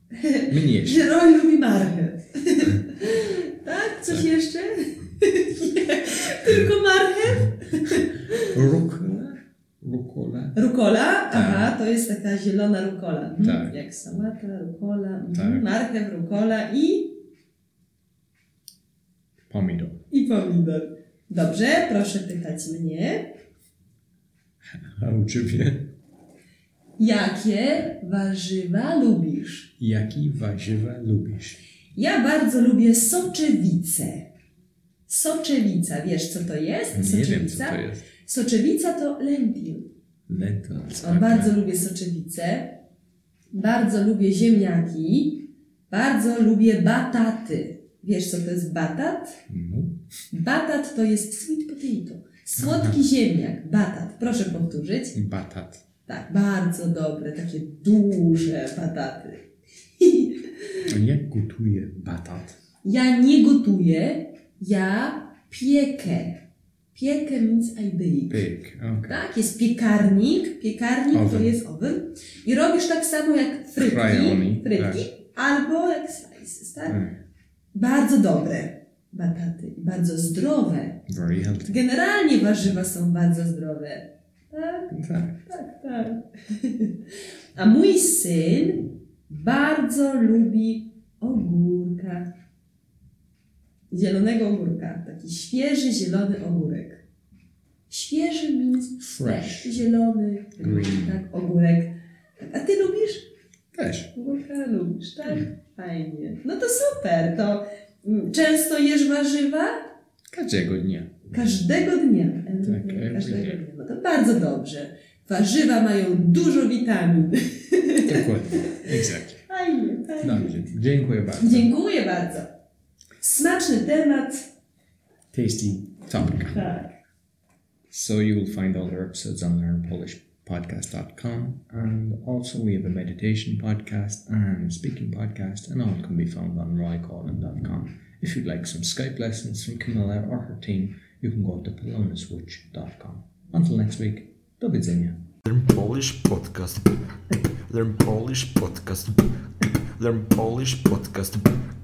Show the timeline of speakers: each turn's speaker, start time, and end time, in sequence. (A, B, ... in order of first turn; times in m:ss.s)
0:00.1-0:08.6 A
0:00.5-0:01.1 B
0:07.3-0:10.6 B
0:10.6-0:17.2 A
0:11.3-0:11.8 B
0:13.4-0:13.8 B
0:15.3-0:15.6 B
0:19.5-0:20.0 B
0:20.1-0:23.3 A
0:24.7-0:25.9 B
0:27.0-0:29.7 A
0:29.8-0:31.6 B
0:32.0-0:34.3 A
0:35.1-0:39.9 A
0:36.9-0:38.0 B
0:40.3-0:41.6 B
0:41.0-0:42.8 A
0:43.5-0:49.4 A
0:49.5-0:50.0 B
0:50.3-0:55.2 A
0:52.6-0:53.0 B
0:55.1-0:55.8 B
0:56.1-0:59.4 A
1:00.0-1:00.9 A
1:00.9-1:02.6 B
1:02.8-1:06.4 A
1:06.9-1:08.4 A
1:08.3-1:09.2 B
1:09.1-1:17.0 A
1:11.1-1:11.6 B
1:13.8-1:15.1 B
1:16.9-1:17.2 B
1:17.7-1:21.0 A
1:21.1-1:21.8 B
1:21.6-1:32.3 A
1:24.9-1:25.5 B
1:33.9-1:37.0 A
1:37.9-1:43.3 A
1:39.0-1:39.8 B
1:40.6-1:41.2 B
1:43.7-1:44.1 B
1:44.1-1:49.7 A
1:50.3-1:51.2 B
1:51.3-1:58.8 A
1:52.6-1:53.6 B
1:58.0-1:59.4 B
1:59.5-2:00.7 A
2:00.2-2:01.7 B
2:01.4-2:02.5 A
2:03.2-2:04.5 A
2:05.3-2:06.6 B
2:06.4-2:06.9 A
2:07.9-2:25.2 B
2:25.5-2:27.0 C
2:27.7-2:29.3 C
2:30.0-2:31.5 C